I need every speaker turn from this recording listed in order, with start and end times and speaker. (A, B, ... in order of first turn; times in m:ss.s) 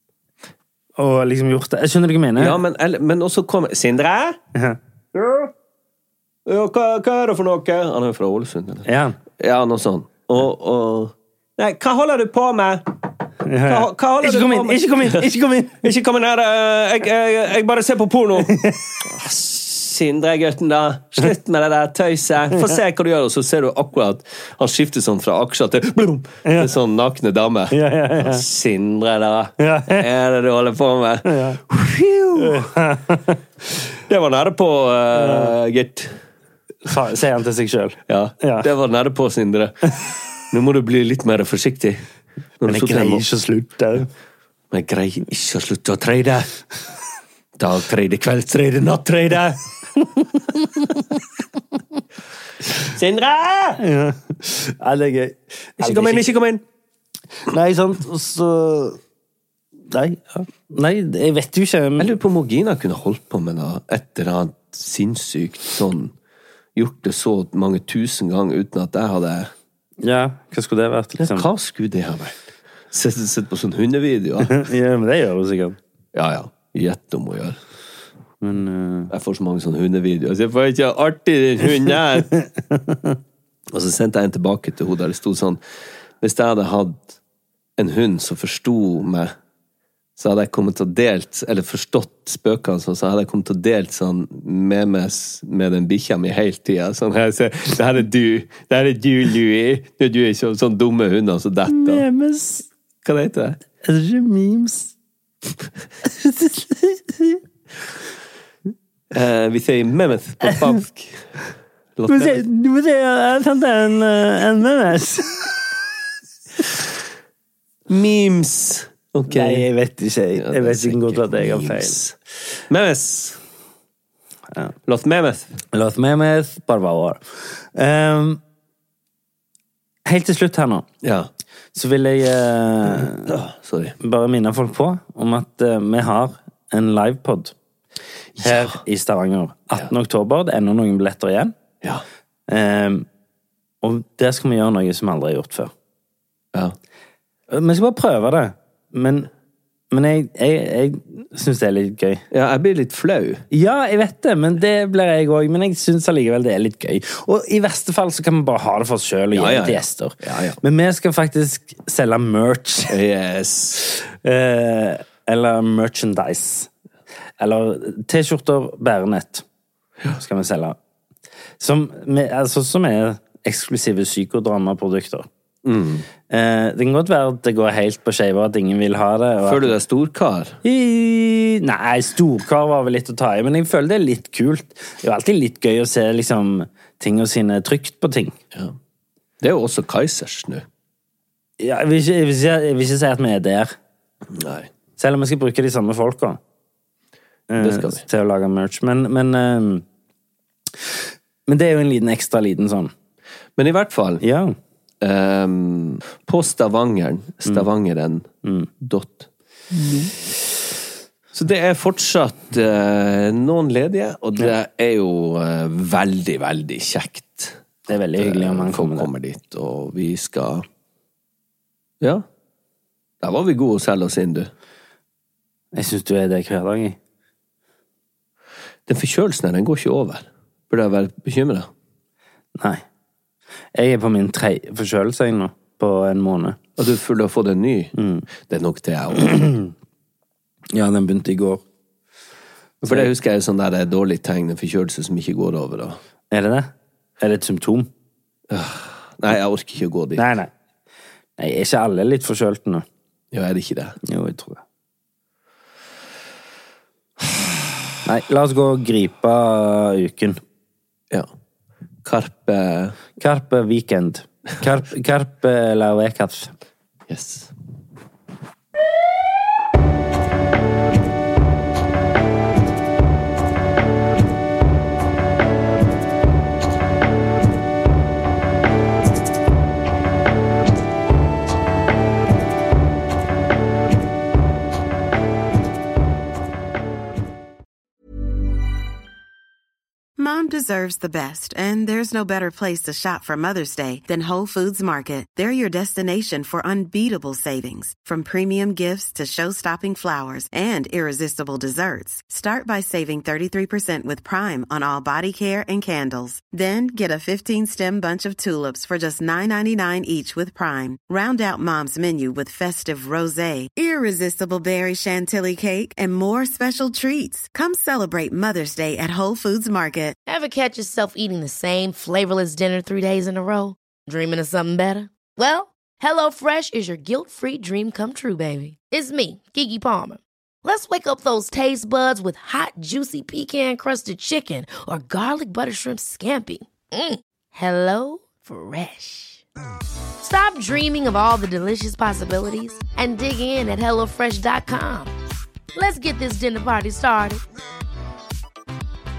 0:01.0-0:02.6 A
0:02.4-0:04.4 B
0:04.5-0:05.5 A
0:06.4-0:13.0 B
0:08.8-0:09.2 A
0:13.4-0:15.8 A
0:13.6-0:15.3 B
0:15.8-0:32.7 B
0:18.4-0:19.0 A
0:26.4-0:26.7 A
0:27.7-0:28.4 A
0:29.6-0:30.0 A
0:31.2-0:31.6 A
0:32.4-0:33.4 A
0:34.0-0:36.2 B
0:35.1-0:35.5 A
0:36.8-0:38.7 A
0:38.1-0:42.0 B
0:42.6-0:43.2 B
0:42.6-0:44.1 A
0:44.7-0:46.5 B
0:47.6-0:49.6 B
0:52.8-0:53.8 B
0:53.8-0:56.3 A
0:55.8-0:56.6 B
0:57.5-0:59.0 A
0:59.9-1:02.1 A
1:02.0-1:06.1 B
1:06.7-1:09.5 B
1:10.0-1:11.5 A
1:11.2-1:14.6 B
1:14.4-1:15.8 A
1:16.1-1:17.6 B
1:18.4-1:19.1 A
1:19.1-1:22.3 B
1:22.3-1:23.2 A
1:23.7-1:25.6 B
1:26.2-1:27.2 B
1:27.8-1:29.3 B
1:30.2-1:42.0 B
1:41.7-1:42.7 A
1:43.0-1:43.6 B
1:43.8-1:44.9 A
1:46.0-1:47.4 A
1:49.1-1:51.4 B
1:52.0-1:52.4 B
1:52.1-1:55.6 A
1:57.9-1:59.6 B
1:59.3-2:02.0 A
2:00.3-2:02.2 B
2:02.7-2:03.4 B
2:04.8-2:05.6 B
2:05.7-2:08.4 A
2:10.0-2:10.8 A
2:11.0-2:11.3 B
2:11.7-2:13.3 A
2:13.0-2:14.0 B
2:14.0-2:17.5 A
2:18.4-2:18.7 B
2:18.4-2:21.5 A
2:22.5-2:23.0 A
2:23.8-2:25.7 A
2:27.5-2:29.3 A
2:29.9-2:32.2 A
2:32.3-2:33.4 B
2:33.5-2:43.0 A
2:39.3-2:40.6 B
2:42.9-2:43.8 B
2:44.2-2:46.7 A
2:47.4-2:49.4 A
2:50.1-2:50.8 A
2:51.6-2:55.3 A
2:55.6-2:56.0 B
2:56.3-2:59.8 A
2:59.4-3:00.6 B
3:00.6-3:08.4 A
3:09.4-3:10.6 B
3:11.6-3:13.7 A
3:14.3-3:14.7 B
3:15.0-3:16.4 A
3:17.5-3:19.8 A
3:17.6-3:18.0 B
3:21.5-3:22.9 A
3:23.6-3:24.2 B
3:24.2-3:24.5 A
3:25.0-3:30.1 B
3:28.4-3:28.7 A
3:31.3-3:37.6 B
3:37.9-3:39.1 A
3:38.1-3:40.6 B
3:43.2-3:44.5 B
3:45.7-3:47.0 A
3:48.9-3:51.7 B
3:52.6-3:52.8 A
3:53.7-3:56.6 A
3:56.8-3:57.9 B
3:58.0-3:58.2 A
3:58.4-3:59.4 B
3:59.3-3:59.7 A
4:00.7-4:01.6 A
4:02.8-4:06.0 B
4:06.3-4:07.9 A
4:08.5-4:10.3 B
4:10.2-4:10.5 A
4:11.4-4:12.8 A
4:13.3-4:14.0 B
4:14.0-4:14.6 A
4:18.0-4:20.4 A
4:22.0-4:23.0 B
4:23.2-4:26.5 A
4:27.1-4:27.5 B
4:50.2-5:20.2 C
5:20.2-5:39.4 D
5:40.2-5:45.1 D
5:45.7-5:47.4 D